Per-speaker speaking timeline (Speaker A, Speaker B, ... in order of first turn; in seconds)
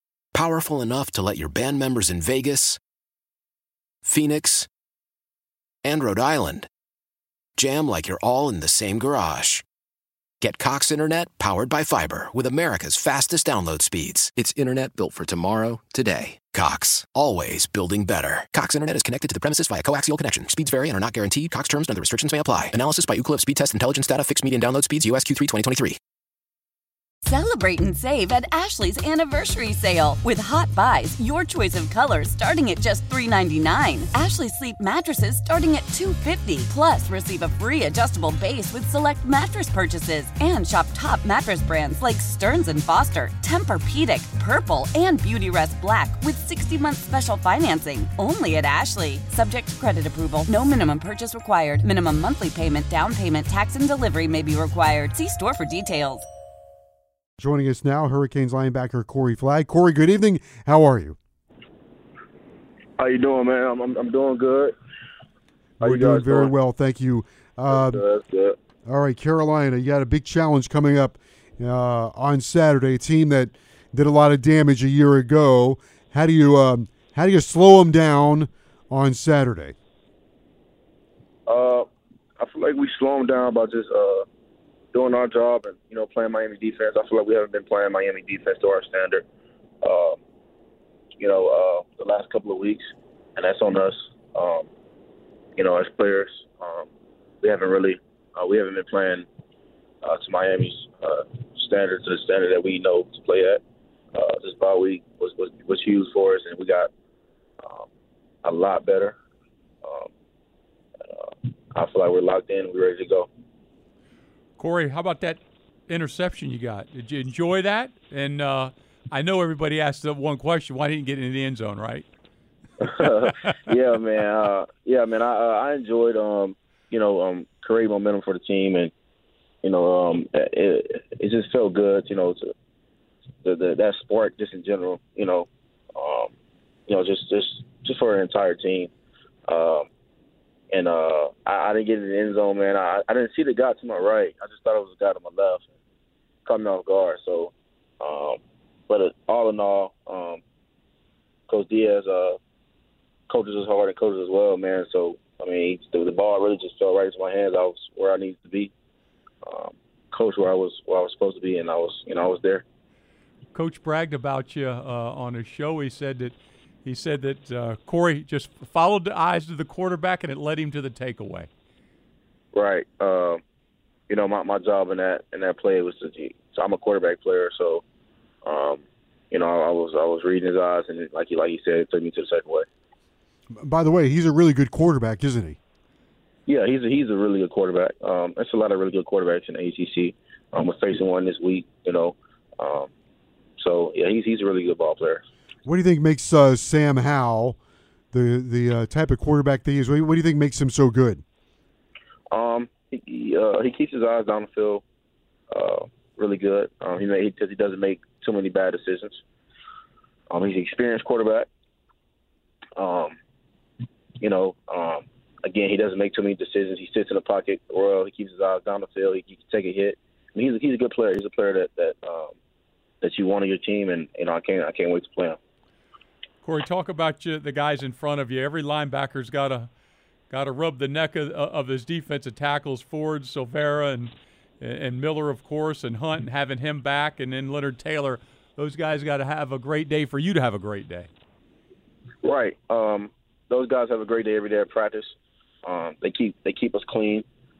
Speaker A: 0.3-2.8, 4.0-4.7, 5.8-6.7, 7.6-9.6, 10.4-26.0
Speaker B: 27.2-56.3
Speaker C: 57.4-61.2, 65.8-68.0, 68.9-79.8, 183.6-185.6, 195.7-197.6, 198.1-201.2
Speaker D: 63.0-64.7, 65.8-66.5, 67.7-68.6, 81.5-81.9, 82.4-84.2, 84.9-89.2, 89.8-90.2, 91.2-94.7, 95.6-96.9, 97.4-99.3, 100.0-103.6, 104.2-106.9, 107.6-107.9, 108.4-109.2, 109.8-110.1, 111.1-113.3, 122.8-128.9, 129.6-132.5, 133.4-136.3, 136.9-138.9, 139.5-139.9, 140.7-145.7, 146.4-150.4, 151.5-152.4, 153.3-158.7, 159.4-162.7, 172.5-173.4, 174.1-177.8, 178.4-182.7, 186.5-192.9, 193.6-195.2, 202.3-204.8, 205.5-209.2, 210.3-211.5, 212.8-213.2, 214.2-222.3, 223.0-225.4, 242.2-247.3
Speaker E: 114.6-122.1, 163.5-171.5, 226.4-229.7, 230.3-241.1